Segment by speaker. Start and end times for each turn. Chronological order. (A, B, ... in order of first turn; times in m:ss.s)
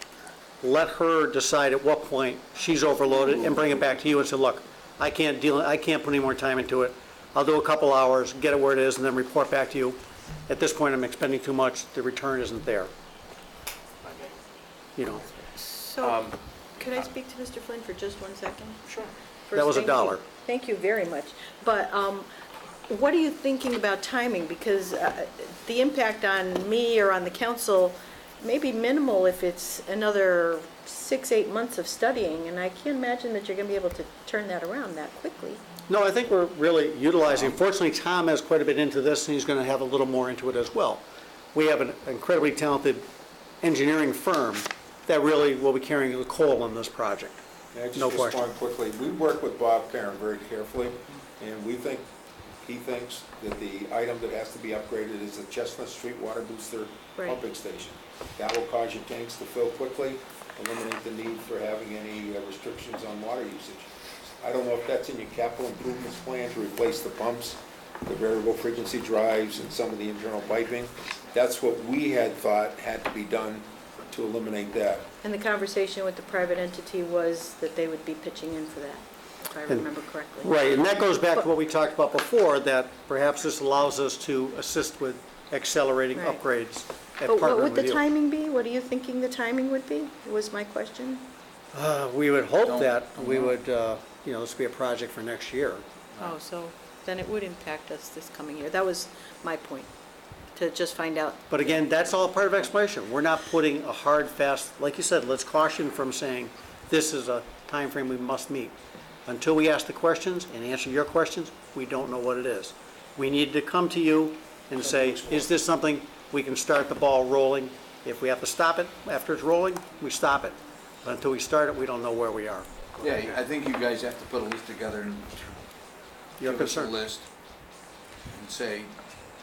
0:00.6-0:12.9 A
0:15.0-0:15.3 A
0:15.5-0:18.9 B
0:19.4-0:22.3 B
0:19.5-0:20.2 A
0:22.9-0:35.6 B
0:35.9-0:43.0 A
0:43.6-0:47.4 A
0:47.7-0:52.1 C
0:47.9-0:48.4 A
0:52.6-1:15.1 C
0:57.2-0:57.4 B
1:15.2-1:20.6 B
1:20.4-1:28.0 A
1:26.1-1:26.4 B
1:27.2-1:31.3 B
1:31.7-1:35.8 A
1:32.6-1:33.5 D
1:36.2-1:39.9 B
1:40.5-1:41.5 B
1:41.5-2:03.4 A
2:03.0-2:05.6 D
2:06.4-2:06.9 A
2:06.4-2:07.2 D
2:08.3-2:08.9 D